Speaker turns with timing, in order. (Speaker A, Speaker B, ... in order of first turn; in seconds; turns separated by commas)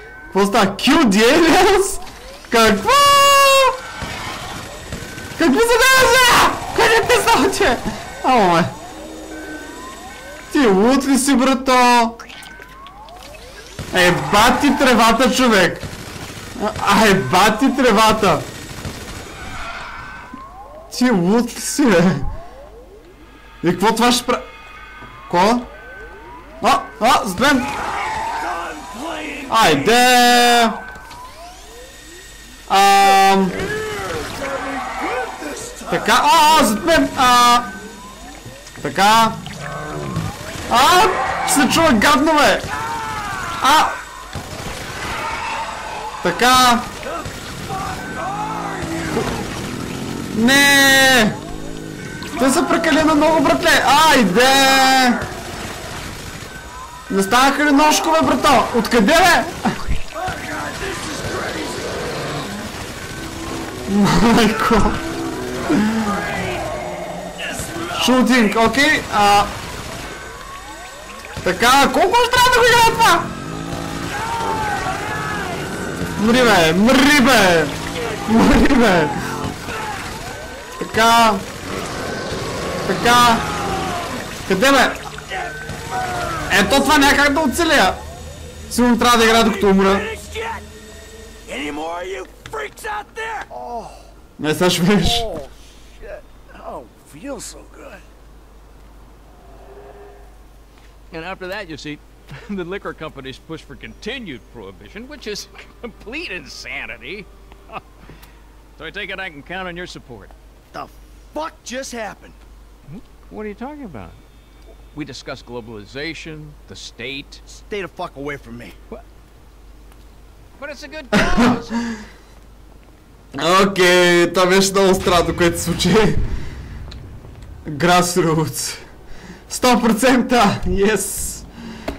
Speaker A: 0.3-3.8, Speaker A: 5.4-8.7, Speaker A: 10.5-12.2, Speaker A: 13.9-15.9, Speaker A: 16.6-18.5, Speaker A: 20.9-22.3, Speaker A: 23.6-24.5, Speaker A: 25.3-25.7, Speaker A: 26.6-27.7, Speaker B: 27.8-30.0, Speaker A: 29.5-30.8, Speaker A: 32.7-33.7, Speaker B: 33.0-36.2, Speaker A: 35.9-37.7, Speaker A: 38.8-39.4, Speaker A: 40.7-42.7, Speaker A: 43.6-44.0, Speaker A: 46.2-46.9, Speaker B: 47.0-49.2, Speaker A: 50.3-51.4, Speaker B: 52.3-52.8, Speaker A: 52.4-55.2, Speaker B: 54.4-55.2, Speaker A: 57.1-59.6, Speaker B: 60.1-61.9, Speaker A: 63.9-65.0, Speaker B: 65.7-66.7, Speaker B: 67.3-68.6, Speaker A: 68.0-69.5, Speaker A: 71.4-73.3, Speaker B: 74.1-76.0, Speaker A: 76.2-79.1, Speaker B: 77.9-78.6, Speaker B: 79.1-80.0, Speaker A: 80.8-81.5, Speaker A: 82.8-83.4, Speaker B: 83.5-84.2, Speaker A: 84.5-85.0, Speaker B: 85.0-87.0, Speaker A: 86.5-88.0, Speaker A: 88.7-90.0, Speaker B: 89.1-90.6, Speaker B: 91.5-94.1, Speaker A: 94.4-95.3, Speaker B: 94.9-98.0, Speaker C: 101.1-107.8, Speaker C: 108.8-110.3, Speaker B: 110.7-112.4, Speaker C: 112.9-114.2, Speaker C: 114.9-117.4, Speaker B: 117.5-118.8, Speaker C: 120.6-121.8, Speaker A: 121.1-121.5, Speaker A: 123.3-126.2, Speaker A: 127.6-128.8, Speaker A: 129.5-131.5